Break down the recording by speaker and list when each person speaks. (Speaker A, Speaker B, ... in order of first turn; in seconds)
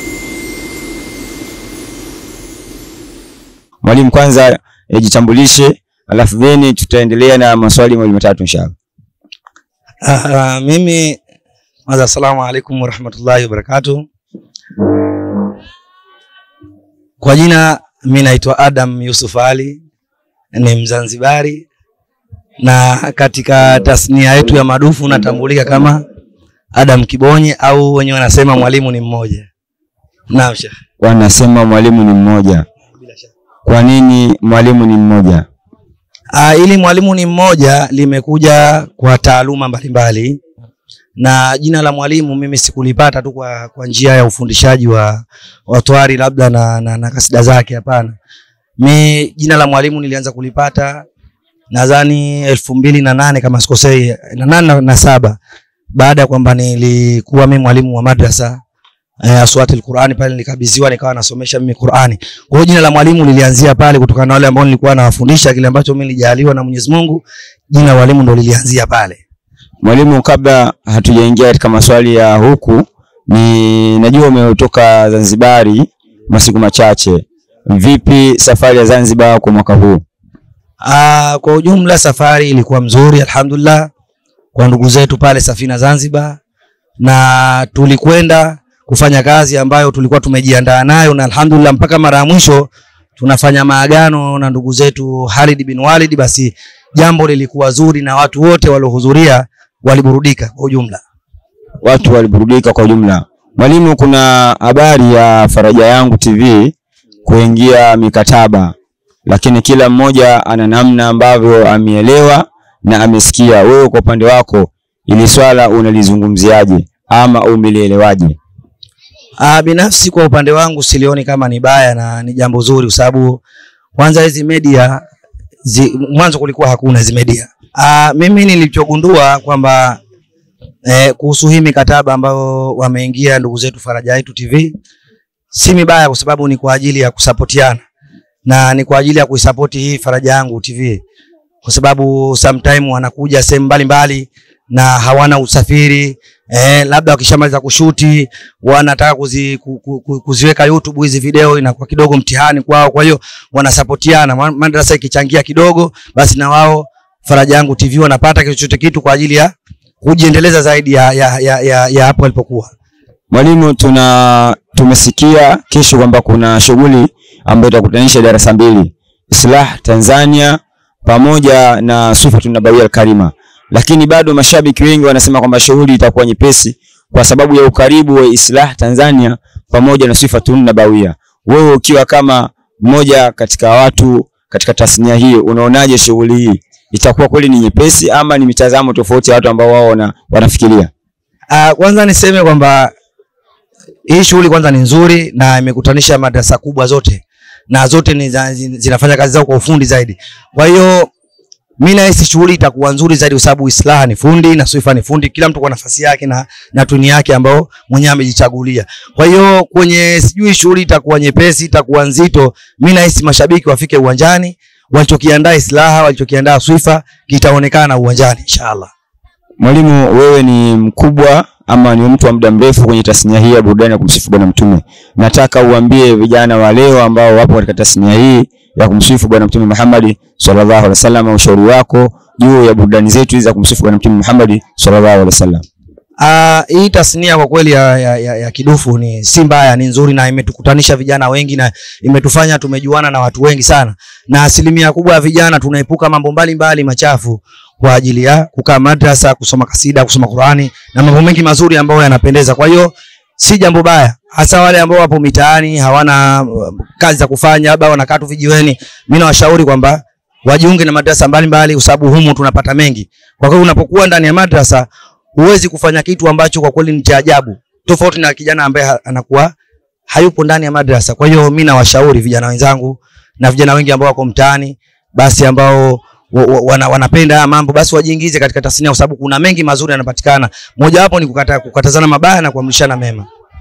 Speaker A: 3.8-8.7, 31.0-32.6, 33.6-35.5, 69.8-80.0, 101.8-106.7, 107.2-108.7, 109.2-118.3, 163.3-190.9, 219.6-235.6
Speaker B: 10.0-11.2, 11.9-14.1, 17.2-19.8, 20.5-21.6, 22.6-26.0, 26.7-29.5, 30.3-30.7, 33.0-33.3, 36.3-40.4, 41.2-48.1, 48.8-51.0, 51.7-55.4, 55.9-58.6, 59.2-69.2, 80.8-83.9, 84.5-86.4, 87.0-101.0, 119.4-123.4, 124.0-125.0, 125.6-130.0, 130.8-134.7, 135.5-137.8, 138.4-141.0, 141.6-162.7, 191.5-192.9, 194.1-201.1, 201.8-218.9, 236.2-269.5, 270.1-283.3